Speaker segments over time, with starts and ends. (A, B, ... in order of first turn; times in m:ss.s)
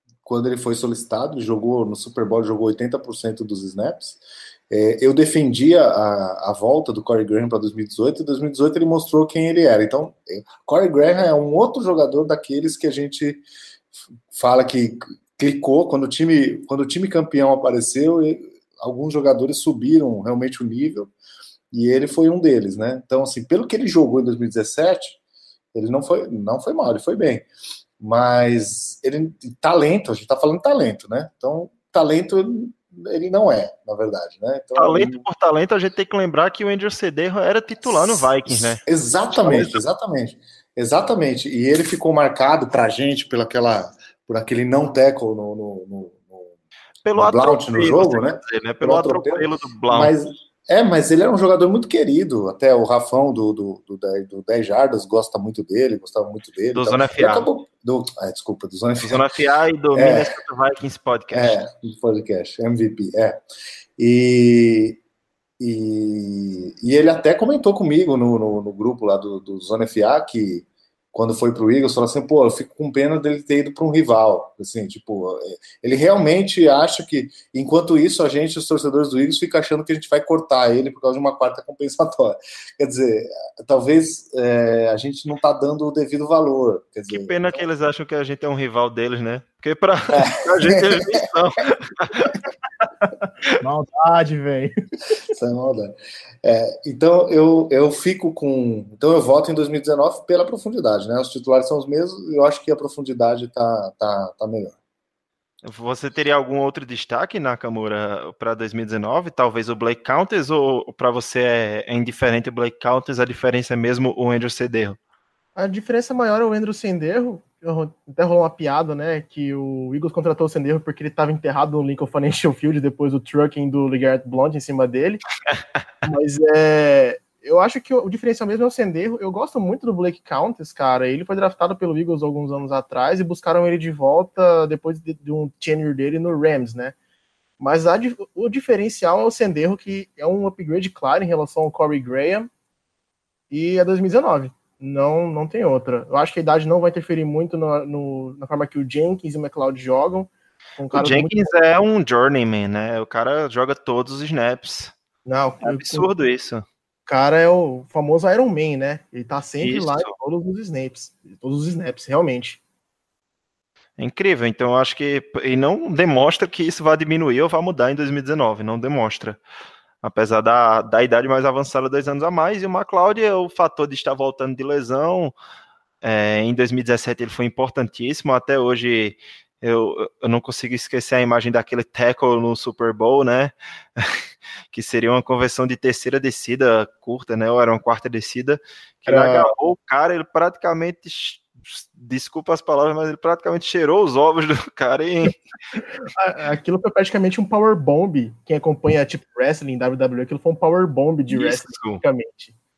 0:00.2-0:13.4 A
0:14.3-0:21.1 A
0:21.7-0:25.2 A
0:25.7-0:27.5 A
0:28.0-0:35.2 A
0:34.8-0:39.8 B
0:37.8-0:46.5 A
0:47.0-0:50.1 B
0:47.1-0:59.2 A
0:56.7-0:57.5 B
0:59.0-1:01.6 B
0:59.9-1:00.3 A
1:01.3-1:03.4 A
1:04.0-1:05.0 A
1:05.6-1:27.4 A
1:27.1-1:32.4 B
1:30.1-1:31.1 A
1:33.6-1:34.7 C
1:35.3-1:44.7 A
1:45.6-1:55.0 B
1:55.5-2:05.2 C
2:06.0-2:16.9 C
2:17.6-2:22.5 C
2:23.5-2:31.5 C
2:30.9-2:34.9 B
2:35.2-2:36.1 C
2:35.6-2:36.6 B
2:37.1-2:42.6 C
2:39.6-2:40.1 B
2:44.0-2:49.4 B
2:50.0-2:55.3 B
2:56.0-3:04.2 B
3:04.7-3:15.4 B
3:09.1-3:09.5 C
3:16.1-3:22.5 C
3:21.3-3:22.0 B